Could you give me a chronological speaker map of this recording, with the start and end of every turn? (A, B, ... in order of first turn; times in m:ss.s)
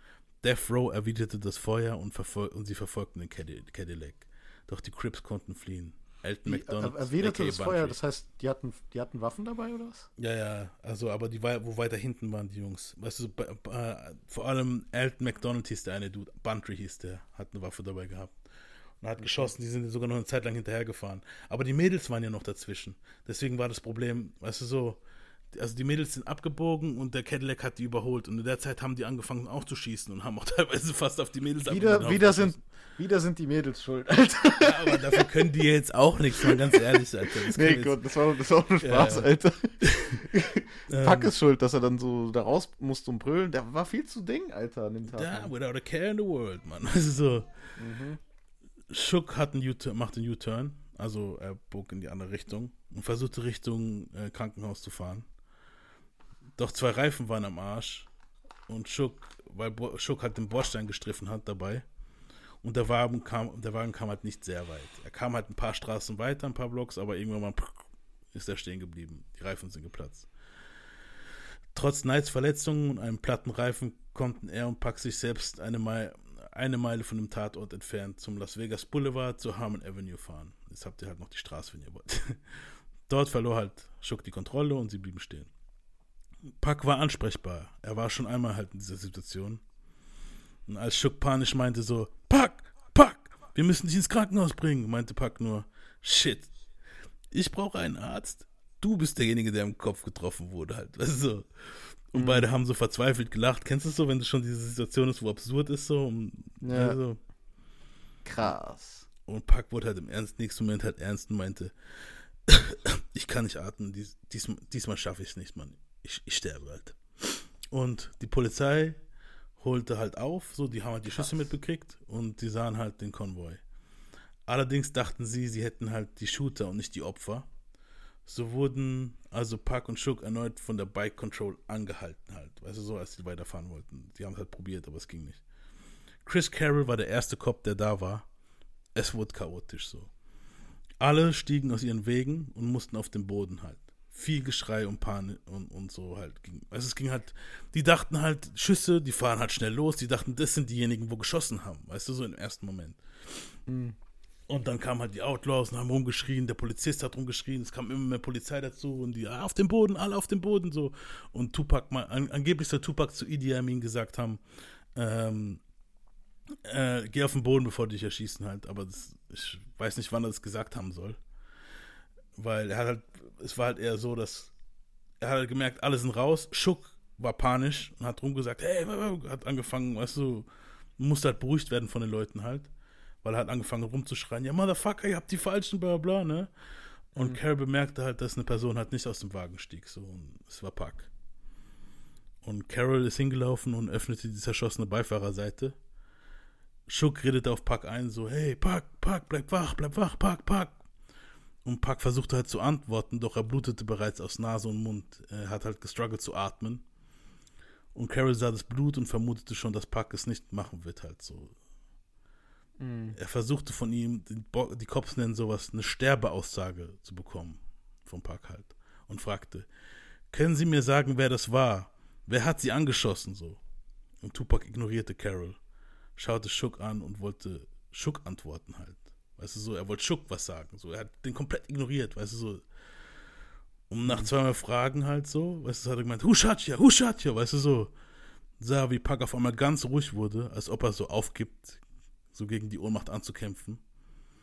0:00.4-0:08.0 A
0:06.4-0:10.1 B
0:10.2-0:18.3 A
0:19.0-0:25.0 A
0:19.2-0:19.5 B
0:25.5-0:32.6 A
0:31.7-0:35.2 B
0:34.6-0:38.0 A
0:37.5-0:45.5 B
0:38.8-0:39.3 A
0:39.9-0:40.2 A
0:40.9-0:41.3 A
0:45.1-0:47.5 A
0:47.8-0:48.2 B
0:48.9-0:55.2 A
0:56.6-0:58.1 A
0:58.7-1:01.8 A
1:02.6-1:10.3 A
1:11.7-1:22.4 A
1:23.1-1:25.5 A
1:26.6-1:29.6 A
1:30.7-1:36.5 A
1:37.3-1:41.5 A
1:42.1-1:47.2 A
1:42.1-1:42.5 B
1:46.6-1:47.0 B
1:48.2-1:49.1 B
1:49.3-1:51.7 A
1:52.5-1:59.0 A
1:59.6-2:03.6 A
2:04.5-2:07.5 A
2:08.2-2:15.4 A
2:16.2-2:18.2 A
2:19.0-2:20.1 A
2:21.0-2:33.0 A
2:33.7-2:34.0 B
2:34.5-2:44.4 A
2:45.0-2:45.6 A
2:46.6-2:51.2 A
2:52.4-2:54.5 A
2:55.2-3:00.5 A
3:01.0-3:02.7 A
3:03.2-3:06.5 A
3:07.1-3:11.1 A
3:12.4-3:15.7 A
3:16.9-3:20.8 A
3:21.6-3:26.8 A
3:27.9-3:31.5 A
3:32.8-3:33.2 B
3:33.1-3:39.7 A
3:40.3-3:43.6 A
3:44.2-3:45.6 A
3:46.2-3:52.6 A
3:53.9-3:57.9 A
3:58.6-4:01.8 A
4:02.3-4:03.8 A